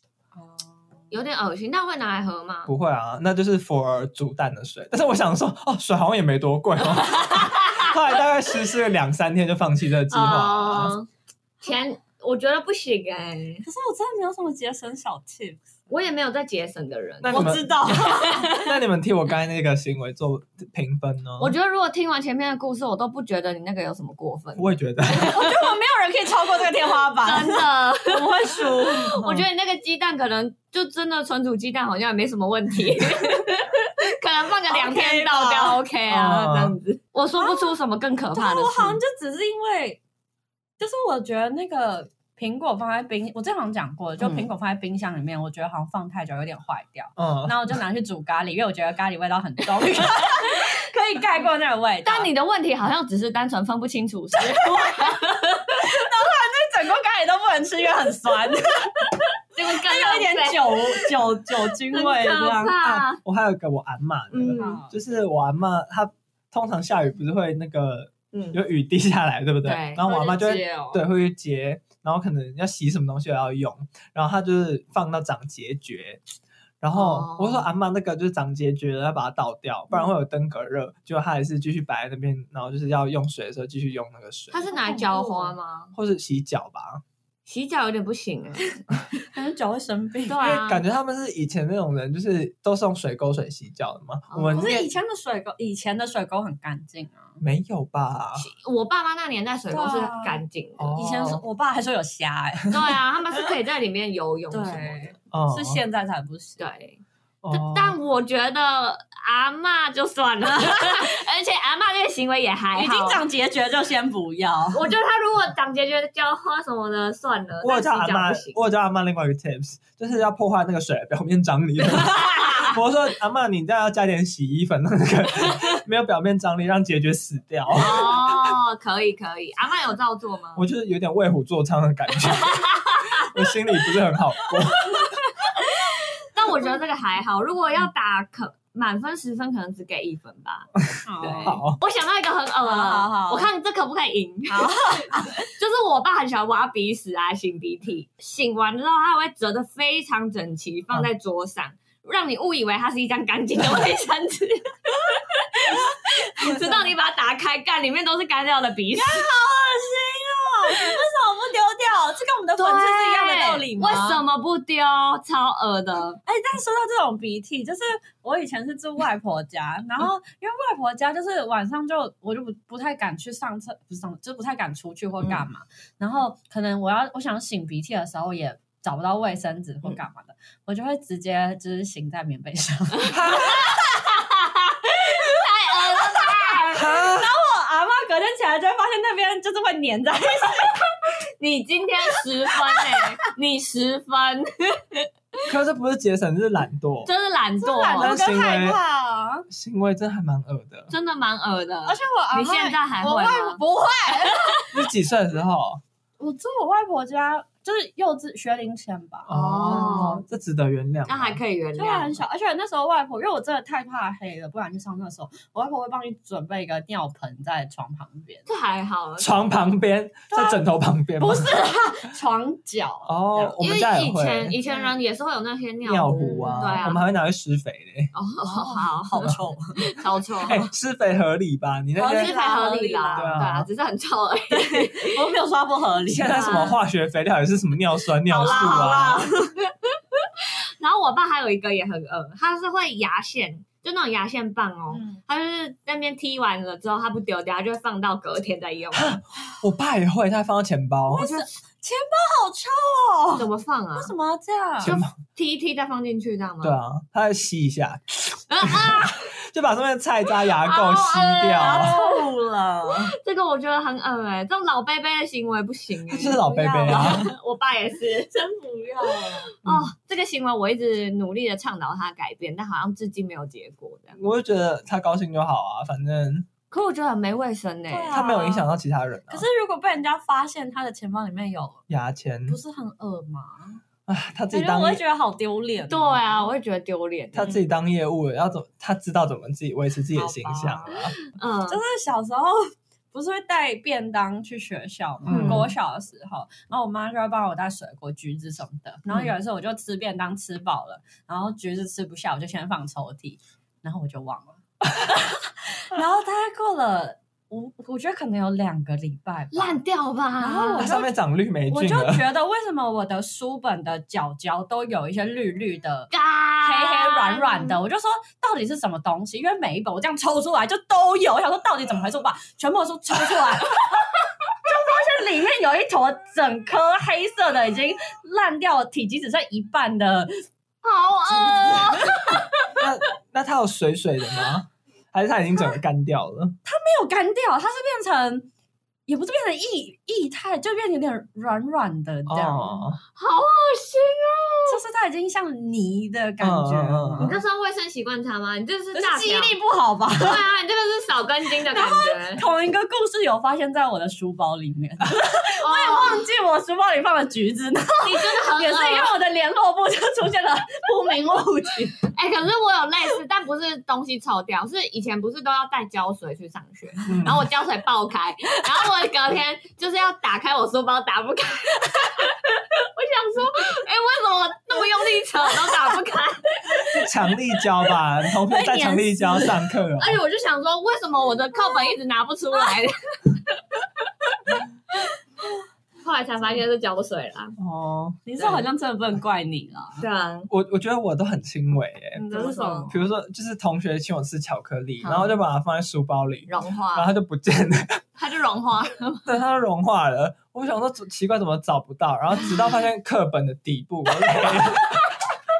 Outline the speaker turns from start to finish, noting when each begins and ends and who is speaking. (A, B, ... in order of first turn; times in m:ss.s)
0:00.3-0:00.9 A
0:01.1-0:02.7 B
0:02.6-0:10.9 C
0:07.2-0:07.9 B
0:10.1-0:11.1 B
0:11.6-0:13.6 B
0:13.6-0:15.6 A
0:15.9-0:18.7 B
0:17.2-0:21.5 C
0:17.3-0:18.5 A
0:21.4-0:25.6 B
0:24.6-0:25.4 C
0:25.1-0:29.2 A
0:27.2-0:39.0 B
0:34.7-0:35.8 A
0:36.1-0:36.8 C
0:37.4-0:37.8 A
0:38.3-0:40.0 A
0:40.8-0:52.3 A
0:47.2-0:47.7 C
0:52.0-0:55.8 B
0:54.5-0:59.0 A
0:59.5-1:01.0 B
0:59.8-1:02.8 A
1:01.9-1:03.2 B
1:02.8-1:16.2 C
1:04.3-1:04.8 B
1:04.6-1:04.9 A
1:08.3-1:08.6 B
1:09.6-1:10.8 B
1:10.0-1:11.0 A
1:16.8-1:24.6 C
1:16.9-1:17.7 B
1:24.5-1:25.9 B
1:24.6-1:25.6 A
1:25.9-1:27.0 C
1:27.5-1:28.9 B
1:29.2-1:30.5 A
1:30.3-1:30.8 B
1:30.4-1:34.9 C
1:34.3-1:34.7 B
1:34.5-1:37.4 A
1:37.4-1:38.4 C
1:38.4-1:40.9 B
1:39.7-1:40.4 A
1:40.8-1:41.4 C
1:40.9-1:42.8 A
1:42.7-1:45.1 B
1:44.5-1:46.6 A
1:45.3-1:45.8 C
1:46.6-1:47.0 B
1:47.4-1:48.0 C
1:47.5-1:53.2 B
1:52.8-1:54.8 A
1:54.7-1:58.6 B
1:57.6-2:08.5 C
2:07.7-2:10.6 B
2:10.6-2:15.1 C
2:12.2-2:13.3 B
2:14.9-2:39.2 B
2:21.0-2:21.6 A
2:21.4-2:21.8 C
2:22.6-2:23.5 A
2:24.5-2:25.5 A
2:39.0-2:44.2 A
2:42.6-2:46.2 B
2:46.2-3:03.8 A
3:03.1-3:03.7 C
3:03.3-3:06.9 B
3:06.0-3:10.8 A
3:06.7-3:07.3 C
3:11.4-3:15.1 B
3:15.5-3:17.1 C
3:17.0-3:18.2 B
3:17.6-3:19.5 A
3:18.0-3:18.8 C
3:19.5-3:20.9 C
3:20.9-3:23.6 B
3:21.8-3:24.7 A
3:24.7-3:25.8 C
3:26.2-3:30.2 A
3:29.3-3:31.4 C
3:29.3-3:30.2 B
3:31.0-3:32.2 B
3:31.8-3:38.4 A
3:38.5-3:39.3 B
3:39.2-3:41.5 C
3:40.3-3:40.6 A
3:41.2-3:43.6 A
3:43.0-3:44.5 C
3:43.6-3:47.1 B
3:44.6-3:44.9 A
3:45.8-3:48.1 C
3:46.1-3:46.9 A
3:48.1-3:50.6 B
3:48.4-3:49.9 A
3:50.4-3:52.3 C
3:51.9-3:53.4 A
3:52.0-3:55.2 B
3:53.1-3:53.7 C
3:54.5-3:56.7 A
3:56.1-3:59.2 C
3:56.3-3:56.8 B
3:58.3-4:09.2 B
3:58.3-3:59.5 A
4:04.9-4:05.2 A
4:08.9-4:11.3 C
4:11.1-4:14.9 A
4:11.2-4:11.5 B
4:13.4-4:14.1 B
4:14.8-4:15.1 C
4:14.8-4:16.8 B
4:16.6-4:21.9 C
4:18.5-4:19.3 B
4:20.6-4:22.2 B
4:21.6-4:23.1 A
4:23.1-4:28.4 B
4:26.1-4:27.2 C
4:26.3-4:27.3 A
4:28.3-4:29.5 A
4:29.5-4:34.2 B
4:34.2-4:36.5 C
4:36.7-4:38.2 B
4:37.9-4:38.7 A
4:38.1-4:39.4 C
4:39.3-4:41.8 A
4:41.9-4:42.6 C
4:42.5-4:43.8 A
4:44.1-4:45.0 C
4:44.5-4:46.5 A
4:45.9-4:47.6 B
4:47.3-4:51.1 C
4:50.1-4:51.0 A
4:51.3-4:51.8 B
4:51.7-5:09.8 A
4:55.2-4:55.7 C
4:55.3-4:55.7 B
5:09.5-5:10.9 B
5:10.4-5:11.1 A
5:10.8-5:12.2 C
5:11.7-5:16.1 A
5:16.1-5:17.8 B
5:16.6-5:23.8 A
5:24.6-5:30.4 A
5:30.8-5:32.7 B
5:31.3-5:32.4 A
5:32.8-5:36.6 C
5:36.6-5:38.5 A
5:39.1-5:42.8 A
5:42.3-5:43.0 C
5:43.2-5:44.8 B
5:44.7-5:47.3 A
5:46.4-5:47.4 C
5:47.2-5:49.6 B
5:48.9-5:50.4 A
5:50.2-5:52.4 B
5:51.7-6:02.0 A
5:55.6-5:56.2 B
5:58.0-5:59.1 B
6:02.1-6:17.1 B
6:07.1-6:07.4 C
6:16.9-6:20.2 C
6:18.4-6:19.6 A
6:20.0-6:25.1 B
6:26.0-6:27.6 B
6:27.6-6:28.2 C
6:28.2-6:30.0 A
6:30.0-6:30.5 B
6:30.5-6:32.2 C
6:32.2-6:33.0 B
6:32.3-6:32.9 A
6:32.9-6:38.0 C
6:35.0-6:35.3 B
6:36.5-6:37.1 B
6:38.2-6:39.3 B
6:39.2-6:45.0 C